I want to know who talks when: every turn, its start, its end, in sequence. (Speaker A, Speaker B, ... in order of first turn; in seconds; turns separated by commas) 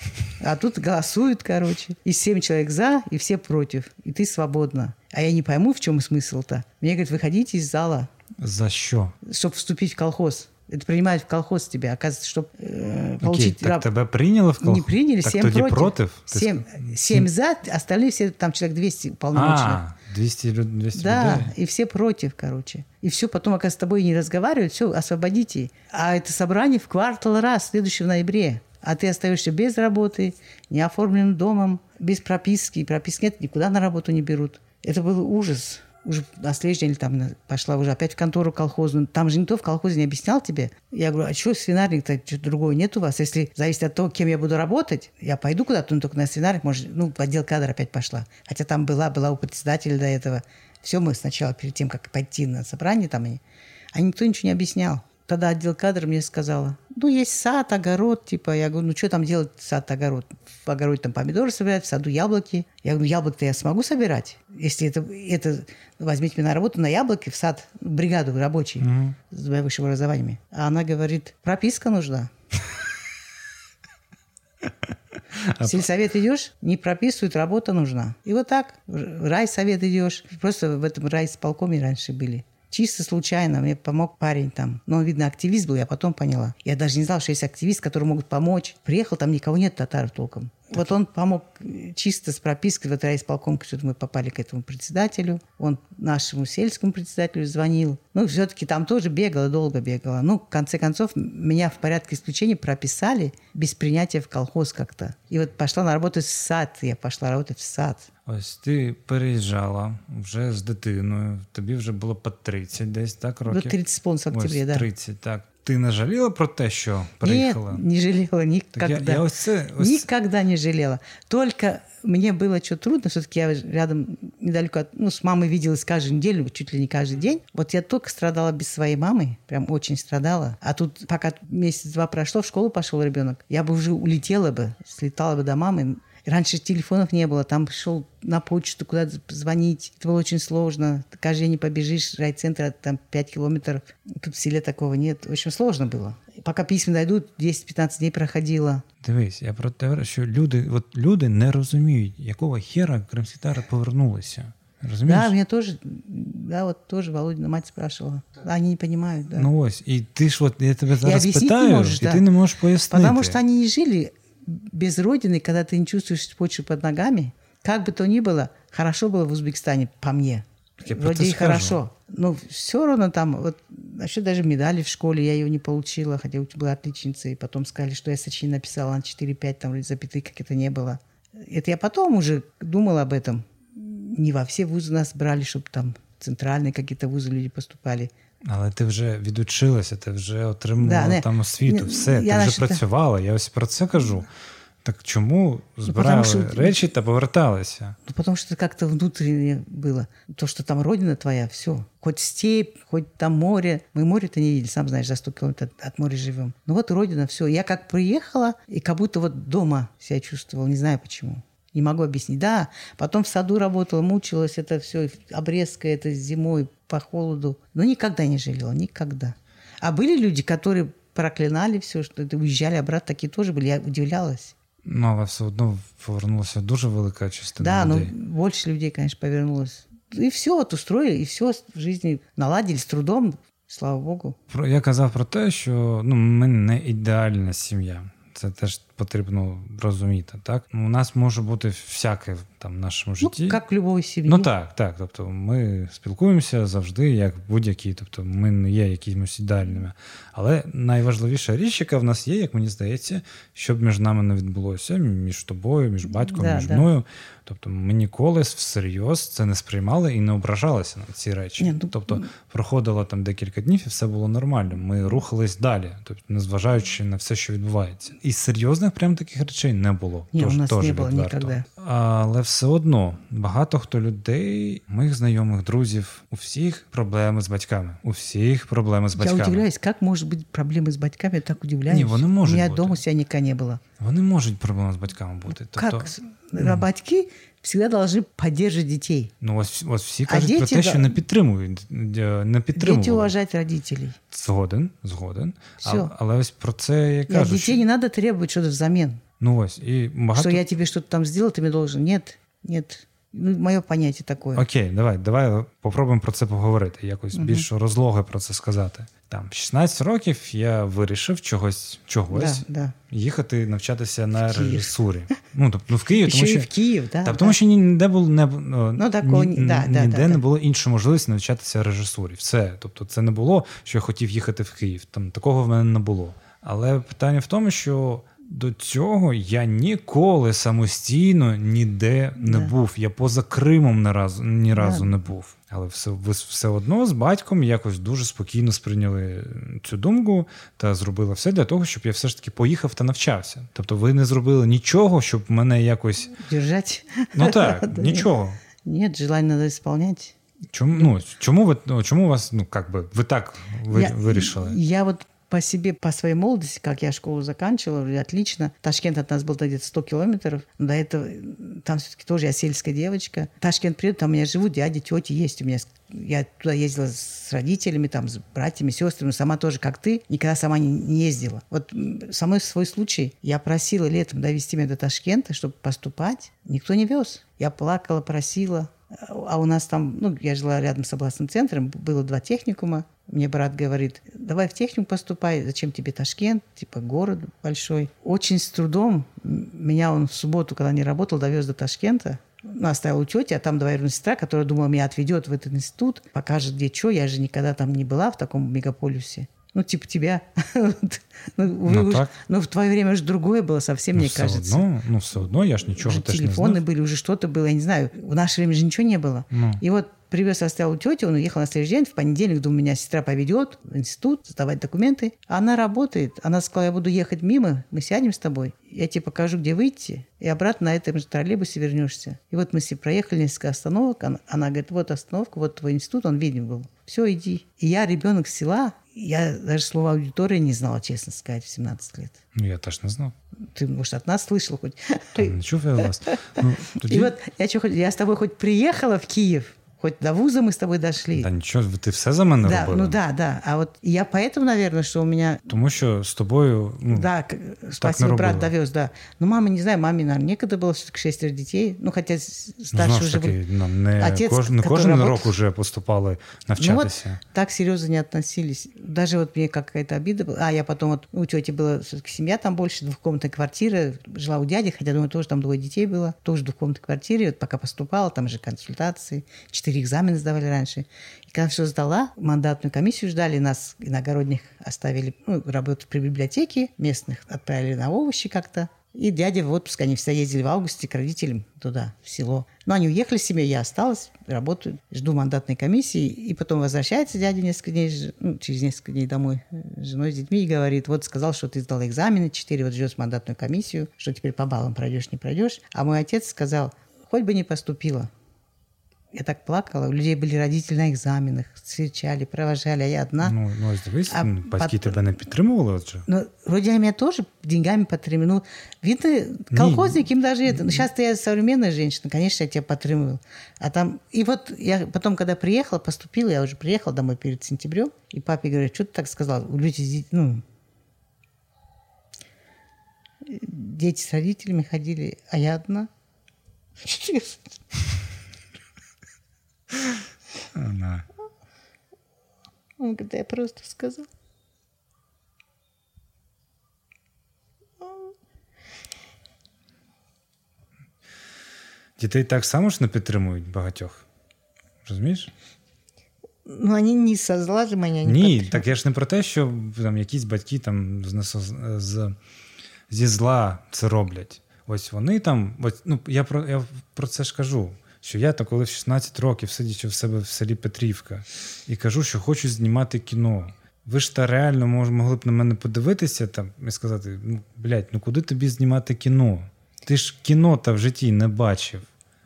Speaker A: 0.4-8.1, Speaker B: 8.4-9.1, Speaker A: 9.2-13.9, Speaker B: 13.2-17.3, Speaker A: 14.6-19.8, Speaker B: 19.3-21.5, Speaker A: 20.9-53.4, Speaker A: 53.9-72.3, Speaker B: 68.8-69.2, Speaker B: 75.3-75.8, Speaker A: 75.5-108.1, Speaker B: 108.2-113.7, Speaker A: 113.5-114.9, Speaker B: 114.3-117.8, Speaker A: 117.2-119.2, Speaker B: 118.7-120.1, Speaker A: 119.8-148.8, Speaker B: 149.0-155.3, Speaker A: 155.1-159.5, Speaker B: 159.3-163.4, Speaker A: 161.0-162.2, Speaker A: 162.9-188.1, Speaker B: 170.8-171.8, Speaker B: 188.4-194.3, Speaker A: 190.8-192.8, Speaker B: 194.8-197.9, Speaker A: 195.8-196.8, Speaker A: 198.1-224.5, Speaker B: 224.8-228.1, Speaker A: 227.6-234.4, Speaker B: 234.5-243.6, Speaker A: 243.2-244.5, Speaker B: 244.3-279.6, Speaker A: 256.3-256.9, Speaker A: 261.6-262.3, Speaker A: 270.3-271.6, Speaker A: 279.1-283.8, Speaker B: 281.9-283.0, Speaker B: 284.0-286.9, Speaker A: 285.7-289.3, Speaker B: 289.4-293.3, Speaker A: 290.3-291.1, Speaker A: 292.8-294.2, Speaker B: 294.3-297.8, Speaker A: 295.8-296.1, Speaker A: 297.3-299.2, Speaker B: 299.4-300.6, Speaker A: 300.3-304.6, Speaker B: 304.6-316.7, Speaker A: 307.3-307.6, Speaker A: 312.3-312.9, Speaker A: 314.4-315.3, Speaker A: 316.2-317.6, Speaker B: 317.2-346.4, Speaker A: 318.9-320.4, Speaker A: 332.4-332.7, Speaker A: 334.8-335.1, Speaker A: 346.4-348.3, Speaker B: 347.3-348.6, Speaker A: 348.8-350.3, Speaker B: 350.7-354.8, Speaker A: 353.9-404.9, Speaker B: 401.9-402.3, Speaker B: 404.1-406.8, Speaker A: 405.9-432.4, Speaker B: 409.5-409.8, Speaker B: 432.5-433.3, Speaker A: 433.7-435.5, Speaker B: 435.4-437.3, Speaker A: 436.3-441.5, Speaker B: 441.4-443.1, Speaker A: 442.6-445.6, Speaker B: 445.7-447.3, Speaker A: 447.1-453.6, Speaker B: 448.0-448.7, Speaker B: 452.9-457.4, Speaker A: 454.2-455.5, Speaker A: 456.8-498.3, Speaker A: 499.3-503.5, Speaker B: 503.4-506.3, Speaker A: 504.3-505.1, Speaker A: 506.3-520.6, Speaker B: 509.7-511.0, Speaker A: 523.4-526.1, Speaker A: 527.0-527.6, Speaker B: 530.7-531.2, Speaker A: 533.0-534.3, Speaker B: 542.2-544.2, Speaker B: 545.0-545.5, Speaker A: 546.6-548.9, Speaker B: 548.2-552.3, Speaker B: 553.1-572.1